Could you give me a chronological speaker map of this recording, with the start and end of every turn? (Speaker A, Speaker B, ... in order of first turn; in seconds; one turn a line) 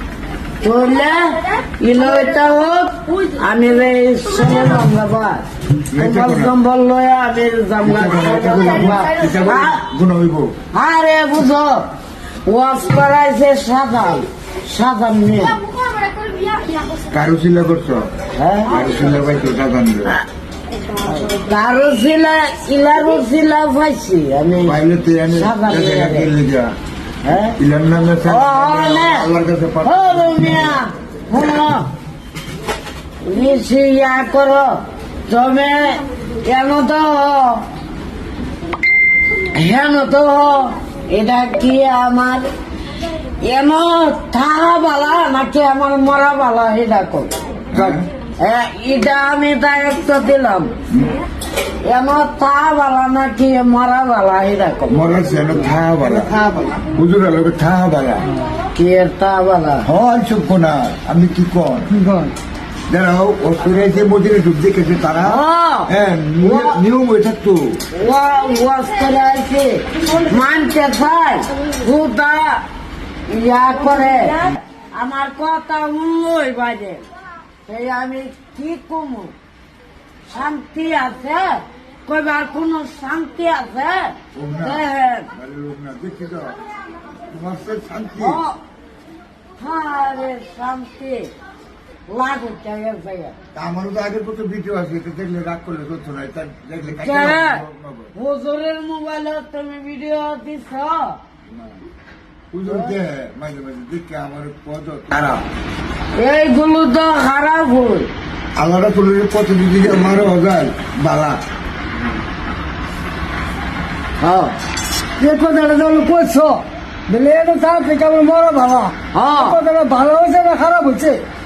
Speaker A: 0.6-9.8
Speaker B: 5.9-6.5
Speaker B: 7.8-10.5
Speaker A: 10.7-11.9
Speaker A: 12.4-15.6
Speaker B: 17.0-18.1
Speaker A: 18.4-18.9
Speaker B: 18.7-20.2
Speaker A: 21.0-24.8
Speaker B: 24.6-26.8
Speaker A: 25.3-26.3
Speaker A: 27.2-27.6
Speaker B: 27.5-30.8
Speaker A: 28.2-29.3
Speaker A: 29.8-31.9
Speaker A: 33.2-37.6
Speaker A: 39.5-42.5
Speaker A: 43.4-50.7
Speaker B: 47.7-48.0
Speaker B: 50.9-51.2
Speaker A: 51.8-55.0
Speaker B: 54.9-58.3
Speaker A: 58.7-59.9
Speaker B: 59.8-61.9
Speaker C: 61.9-62.3
Speaker B: 62.9-67.8
Speaker A: 65.2-65.9
Speaker A: 66.4-66.8
Speaker A: 67.9-72.7
Speaker A: 73.3-77.1
Speaker A: 77.7-79.3
Speaker A: 80.3-85.3
Speaker B: 84.3-86.6
Speaker B: 87.2-88.4
Speaker A: 88.2-88.6
Speaker A: 89.6-91.3
Speaker A: 92.1-93.3
Speaker B: 93.5-98.1
Speaker A: 97.0-97.6
Speaker A: 98.2-101.2
Speaker B: 101.5-101.8
Speaker B: 102.5-105.5
Speaker A: 102.7-102.9
Speaker A: 106.2-108.1
Speaker B: 108.6-111.4
Speaker A: 114.2-114.5
Speaker C: 115.2-121.2
Speaker A: 119.1-119.6